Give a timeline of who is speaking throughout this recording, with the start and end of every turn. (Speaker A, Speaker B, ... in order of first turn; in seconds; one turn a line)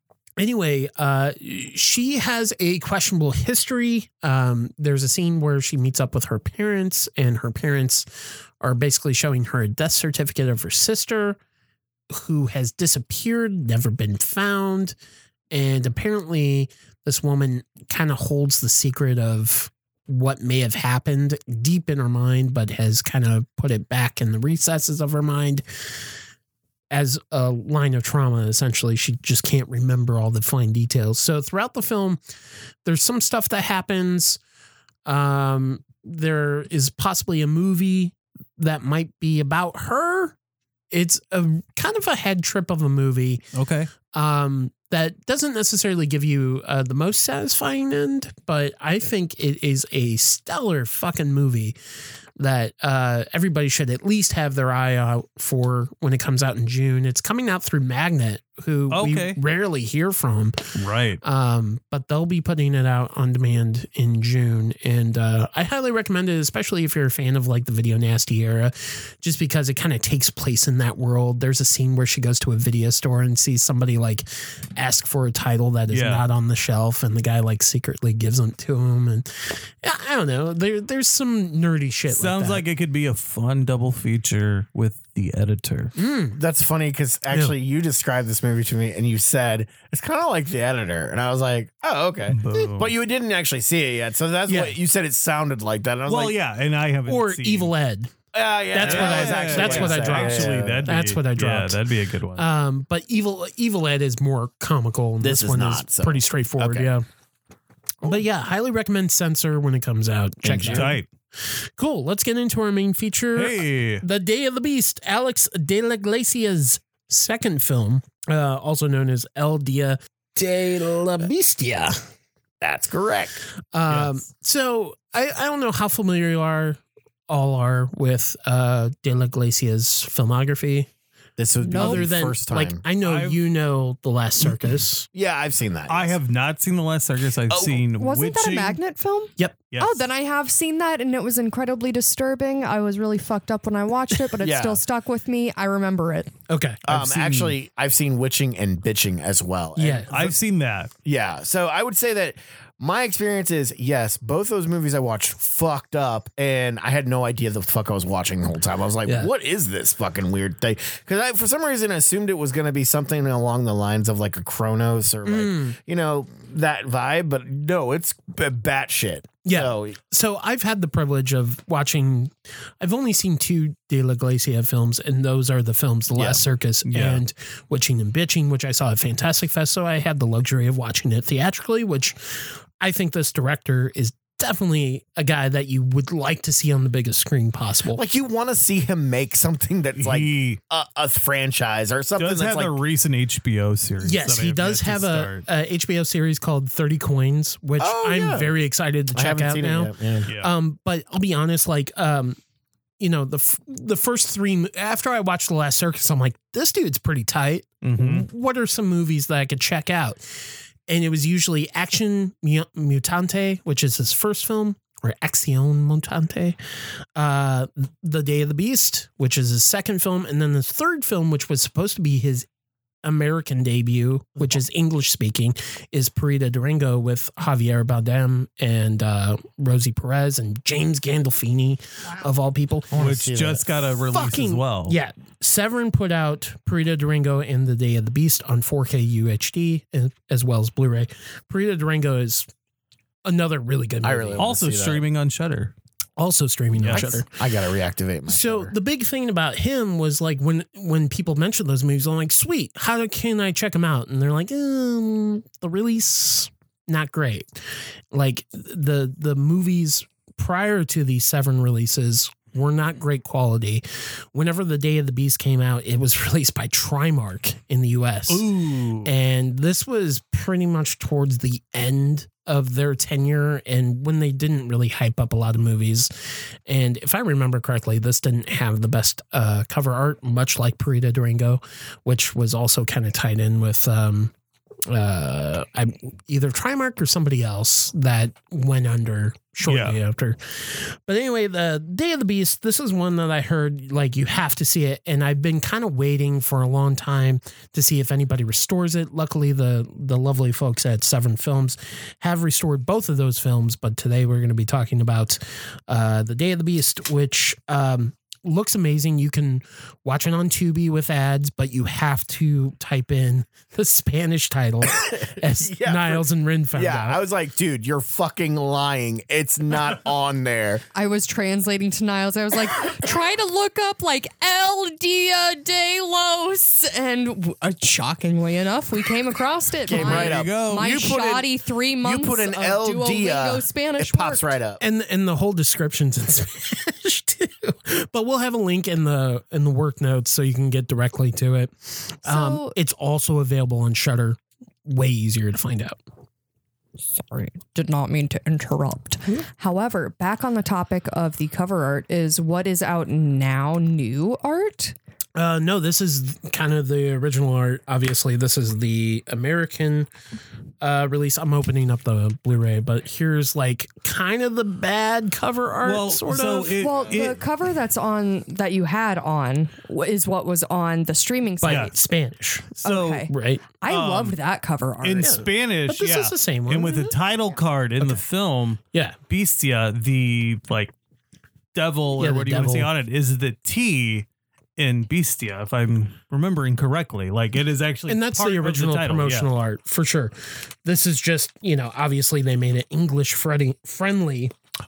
Speaker A: 0.4-8.1
Speaker A: 8.6-11.4
Speaker A: 12.1-14.9
Speaker A: 15.5-25.6
Speaker A: 26.9-32.2
Speaker A: 32.8-34.4
Speaker A: 35.0-40.3
Speaker A: 40.9-43.4
Speaker B: 43.5-43.9
Speaker A: 44.0-51.8
Speaker A: 52.4-60.6
Speaker B: 58.9-59.4
Speaker B: 60.7-61.2
Speaker A: 61.2-82.6
Speaker B: 75.9-76.2
Speaker B: 82.1-85.9
Speaker A: 86.0-86.4
Speaker C: 86.3-96.3
Speaker B: 92.3-93.0
Speaker A: 94.5-94.8
Speaker B: 96.1-97.7
Speaker A: 97.1-98.1
Speaker C: 98.3-100.9
Speaker A: 98.7-101.8
Speaker B: 98.8-102.5
Speaker A: 102.4-107.0
Speaker C: 105.2-106.9
Speaker A: 108.0-122.0
Speaker C: 110.4-110.9
Speaker B: 110.6-111.1
Speaker B: 113.3-114.0
Speaker C: 122.6-123.4
Speaker A: 123.7-130.9
Speaker B: 123.9-124.2
Speaker C: 131.4-132.8
Speaker D: 131.6-132.0
Speaker A: 131.7-135.1
Speaker B: 133.0-133.4
Speaker C: 135.1-136.2
Speaker B: 135.9-138.8
Speaker C: 137.5-137.8
Speaker D: 138.0-146.3
Speaker B: 139.7-140.0
Speaker C: 144.4-144.8
Speaker A: 146.5-147.5
Speaker C: 146.8-150.2
Speaker A: 149.8-150.3
Speaker B: 150.1-150.9
Speaker C: 151.0-170.0
Speaker A: 165.2-165.8
Speaker A: 169.4-188.0
Speaker C: 176.1-176.4
Speaker B: 176.8-177.2
Speaker C: 187.9-192.8
Speaker B: 190.0-190.6
Speaker B: 192.2-195.4
Speaker A: 194.0-202.4
Speaker C: 197.8-198.5
Speaker C: 199.1-200.3
Speaker B: 200.3-200.5
Speaker A: 203.0-216.6
Speaker B: 207.8-208.2
Speaker A: 217.2-222.5
Speaker A: 223.0-233.0
Speaker C: 232.9-233.7
Speaker B: 232.9-235.0
Speaker A: 234.0-242.5
Speaker A: 243.2-244.4
Speaker C: 244.0-245.0
Speaker B: 244.4-245.7
Speaker A: 246.2-247.3
Speaker B: 246.7-247.1
Speaker C: 246.9-248.7
Speaker A: 248.3-268.5
Speaker B: 268.3-269.1
Speaker A: 269.0-276.1
Speaker A: 276.6-284.3
Speaker A: 284.9-317.2
Speaker B: 289.6-290.0
Speaker C: 315.0-320.8
Speaker D: 320.9-334.5
Speaker C: 329.8-331.5
Speaker B: 329.9-330.9
Speaker C: 332.0-334.8
Speaker A: 334.8-346.0
Speaker D: 342.2-342.7
Speaker D: 347.2-354.9
Speaker A: 355.3-360.1
Speaker A: 360.8-366.8
Speaker B: 365.8-367.4
Speaker D: 366.8-371.9
Speaker A: 371.6-373.6
Speaker B: 371.6-371.9
Speaker B: 372.8-373.3
Speaker D: 372.8-375.4
Speaker B: 373.9-374.4
Speaker B: 375.0-380.9
Speaker A: 375.2-377.1
Speaker B: 381.7-384.2
Speaker A: 382.2-382.9
Speaker B: 384.8-389.5
Speaker A: 388.1-394.5